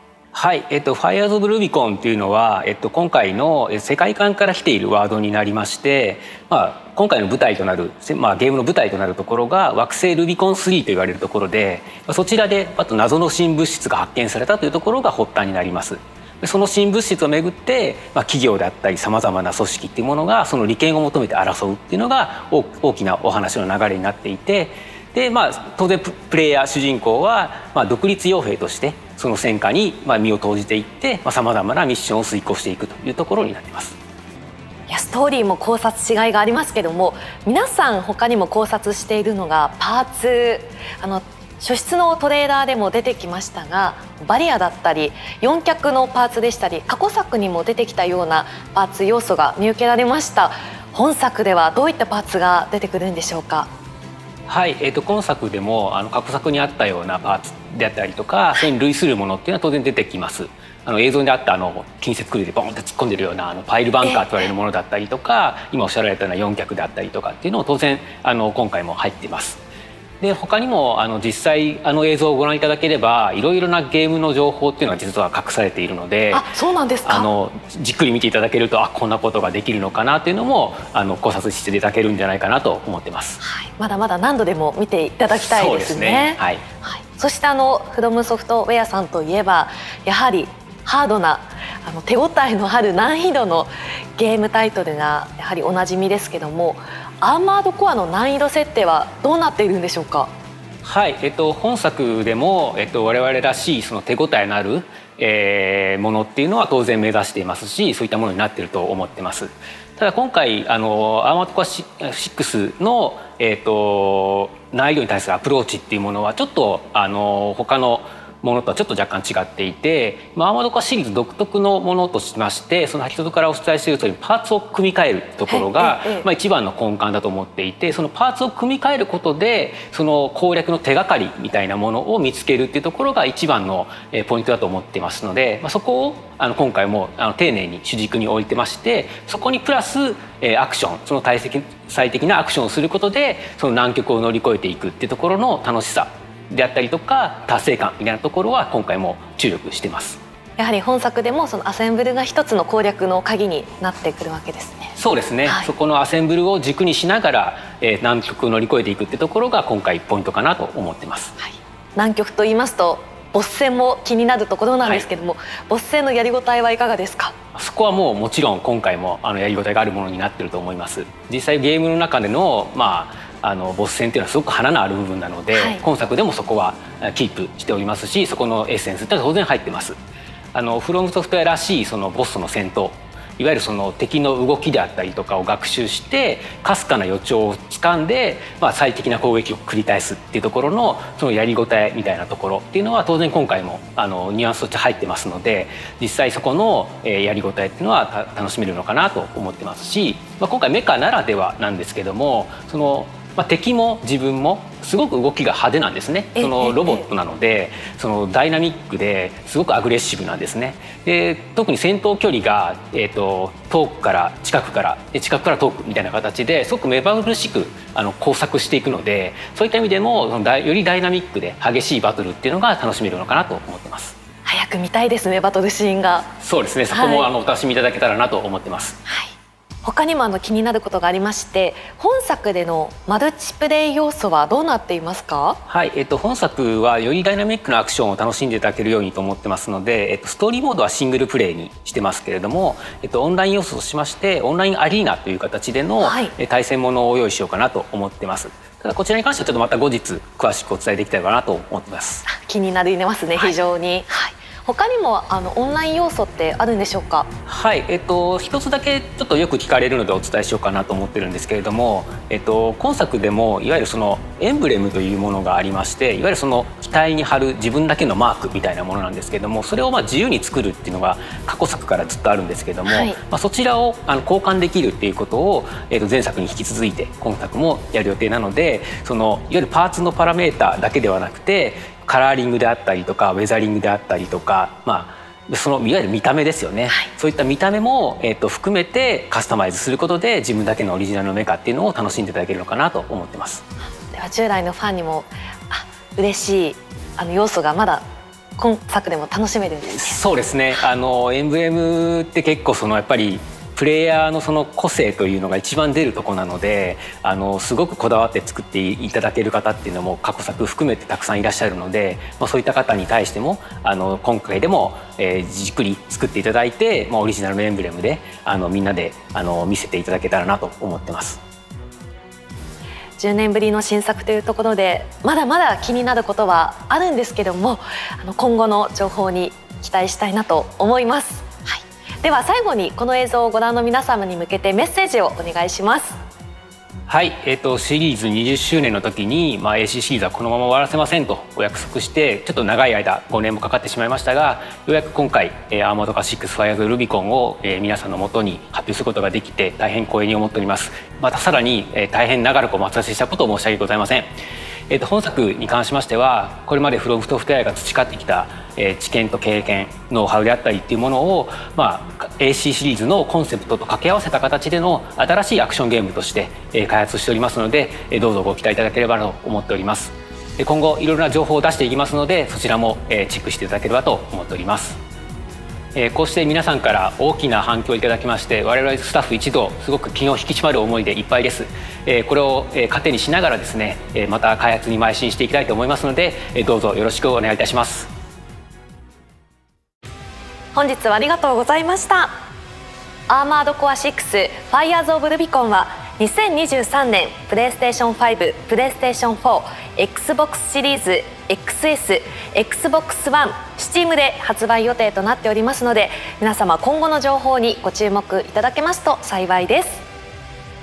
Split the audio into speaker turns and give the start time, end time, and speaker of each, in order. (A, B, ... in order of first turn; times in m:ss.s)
0:00.3-0:34.0 A
0:34.9-0:53.7 B
0:54.5-1:09.6 A
1:04.0-1:04.4 B
1:10.2-1:16.5 A
1:16.3-1:17.3 B
1:17.0-1:23.4 A
1:23.4-1:40.3 B
1:25.3-1:26.6 A
1:40.8-2:30.2 A
2:05.5-2:06.2 B
2:30.6-2:35.7 B
2:35.0-2:41.4 A
2:41.4-2:47.3 B
2:47.5-2:59.9 A
2:55.5-2:55.8 B
3:00.5-3:44.2 A
3:26.4-3:27.0 B
3:44.4-3:46.3 B
3:46.4-3:49.0 A
3:46.9-3:47.3 B
3:49.1-3:49.3 B
3:49.8-3:55.6 B
3:55.6-4:12.2 A
4:06.0-4:06.3 B
4:12.2-4:17.3 B
4:17.5-4:53.6 A
4:32.8-4:33.2 B
4:54.1-4:58.0 B
4:58.6-5:00.2 B
4:59.8-5:21.4 A
5:23.2-5:36.2 B
5:37.1-5:54.3 A
5:54.9-6:15.0 A
6:15.9-6:28.1 A
6:30.7-6:32.3 B
6:33.3-6:50.0 B